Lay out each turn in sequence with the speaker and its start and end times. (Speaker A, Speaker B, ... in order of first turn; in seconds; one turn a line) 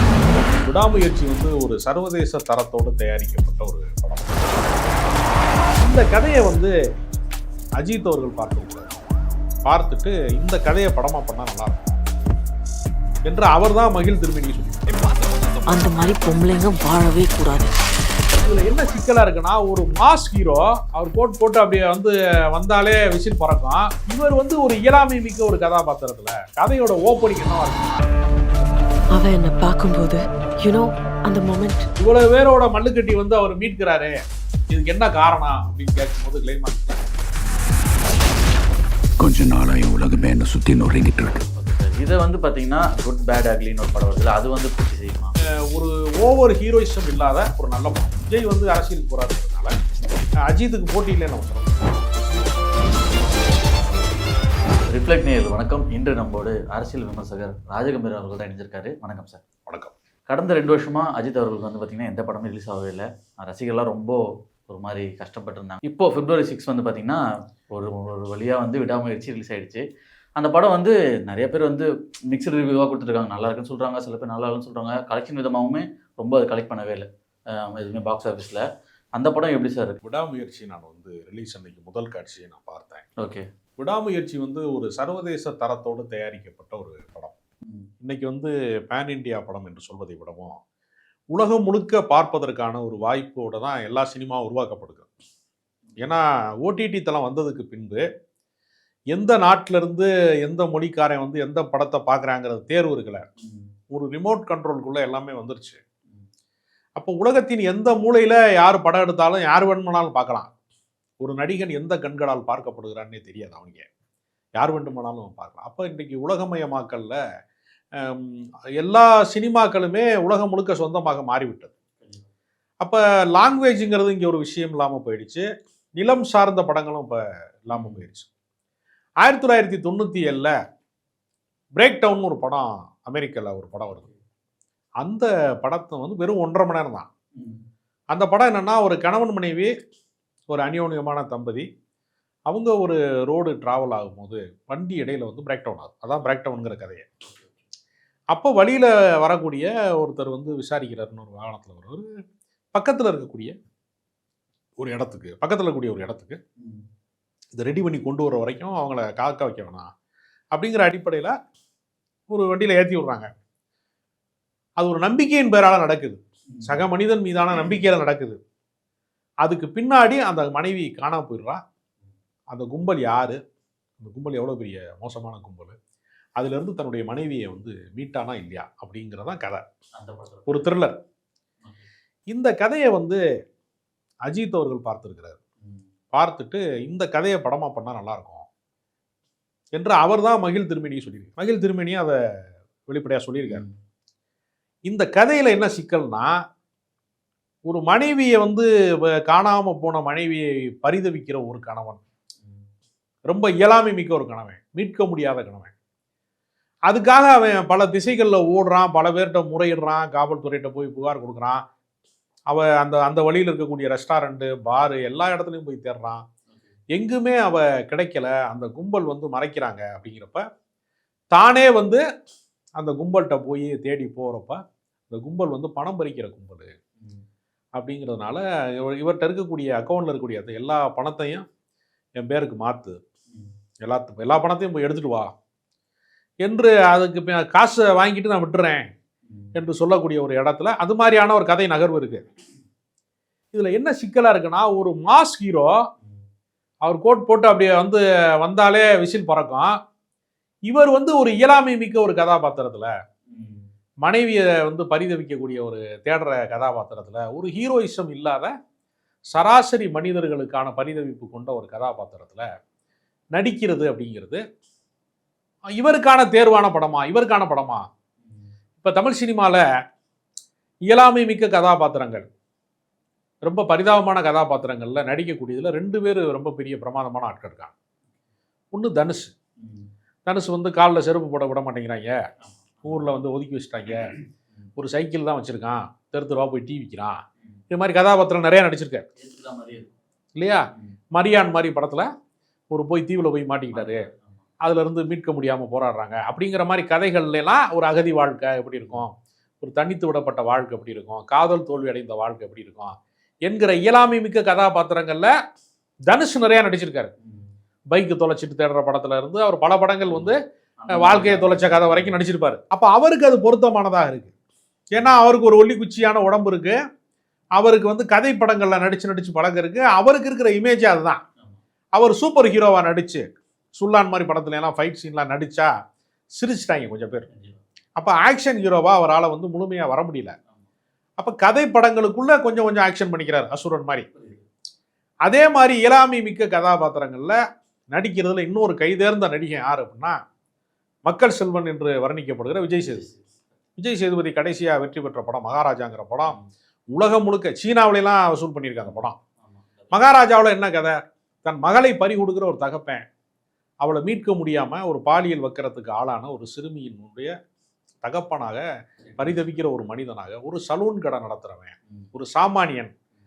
Speaker A: 0.6-4.9
Speaker A: 5.8-6.7
Speaker A: 7.8-8.9
Speaker A: 9.7-12.0
Speaker A: 13.3-15.0
Speaker B: 15.7-17.7
Speaker A: 18.4-28.1
Speaker B: 29.1-31.9
Speaker A: 32.0-34.1
Speaker A: 34.7-37.0
Speaker C: 39.2-41.4
Speaker D: 41.5-45.3
Speaker A: 45.7-49.7
Speaker A: 50.5-52.0
Speaker D: 54.9-59.4
Speaker A: 59.7-59.9
Speaker D: 60.3-67.2
Speaker D: 67.7-69.8
Speaker D: 70.4-78.6
Speaker D: 79.2-80.0
Speaker A: 80.0-83.0
Speaker A: 83.8-87.3
Speaker A: 88.0-90.5
Speaker A: 91.3-95.1
Speaker A: 96.0-98.0
Speaker A: 99.1-103.2
Speaker D: 103.4-103.7
Speaker A: 103.9-105.8
Speaker A: 107.0-110.5
Speaker A: 111.2-113.9
Speaker A: 114.6-117.2
Speaker A: 118.0-121.7
Speaker A: 122.8-125.4
Speaker A: 126.0-128.3
Speaker D: 127.7-128.0
Speaker A: 129.2-130.5
Speaker A: 131.8-134.0
Speaker A: 135.0-137.1
Speaker D: 137.3-137.6
Speaker A: 138.1-139.7
Speaker A: 140.5-141.7
Speaker A: 142.5-147.1
Speaker D: 147.2-147.6
Speaker A: 148.3-152.1
Speaker A: 152.7-153.5
Speaker A: 154.8-156.4
Speaker D: 156.6-156.8
Speaker A: 157.6-159.9
Speaker A: 160.5-161.3
Speaker A: 162.3-163.3
Speaker A: 164.8-168.4
Speaker D: 166.5-166.8
Speaker D: 167.5-167.8
Speaker A: 169.4-171.6
Speaker A: 172.5-173.4
Speaker A: 174.0-175.8
Speaker A: 176.4-179.6
Speaker D: 179.9-180.7
Speaker A: 180.5-180.9
Speaker A: 182.3-183.2
Speaker A: 184.3-185.4
Speaker A: 186.1-188.5
Speaker A: 189.8-192.2
Speaker A: 192.9-193.6
Speaker D: 193.4-193.8
Speaker A: 194.9-196.3
Speaker A: 197.7-202.0
Speaker A: 203.3-205.7
Speaker A: 206.9-211.6
Speaker A: 212.5-216.2
Speaker A: 216.9-220.4
Speaker A: 221.3-222.0
Speaker A: 222.8-226.7
Speaker D: 227.0-227.2
Speaker A: 227.8-231.4
Speaker A: 232.2-233.0
Speaker A: 233.8-235.3
Speaker A: 236.4-238.9
Speaker D: 239.3-239.6
Speaker A: 239.5-242.2
Speaker A: 243.5-245.7
Speaker A: 246.8-249.7
Speaker A: 250.7-252.9
Speaker D: 253.3-253.7
Speaker A: 254.1-258.5
Speaker A: 259.3-262.5
Speaker A: 263.4-264.4
Speaker A: 265.7-267.8
Speaker D: 268.2-268.5
Speaker A: 268.8-269.6
Speaker A: 270.9-272.2
Speaker A: 273.4-277.7
Speaker A: 278.7-279.3
Speaker D: 279.6-279.9
Speaker A: 280.2-282.1
Speaker D: 282.4-283.1
Speaker A: 282.8-284.1
Speaker D: 283.9-284.7
Speaker A: 284.8-287.2
Speaker A: 287.7-289.0
Speaker D: 289.2-289.9
Speaker A: 290.4-292.1
Speaker A: 292.7-294.1
Speaker D: 293.7-294.4
Speaker A: 294.6-302.9
Speaker A: 303.5-305.3
Speaker A: 306.1-307.1
Speaker D: 307.2-307.5
Speaker A: 307.9-310.4
Speaker D: 310.1-312.1
Speaker A: 311.0-314.3
Speaker A: 314.9-316.8
Speaker A: 317.6-321.2
Speaker A: 321.9-323.2
Speaker A: 323.8-325.7
Speaker A: 326.4-327.3
Speaker D: 327.3-327.6
Speaker A: 328.0-330.4
Speaker A: 331.2-334.1
Speaker D: 334.1-334.4
Speaker A: 335.3-337.4
Speaker A: 337.9-340.1
Speaker A: 341.1-343.1
Speaker D: 342.8-343.3
Speaker A: 343.8-346.4
Speaker A: 346.9-349.1
Speaker D: 348.9-350.0
Speaker A: 349.9-353.0
Speaker A: 353.8-357.3
Speaker A: 358.0-358.6
Speaker D: 359.1-359.4
Speaker A: 359.2-362.9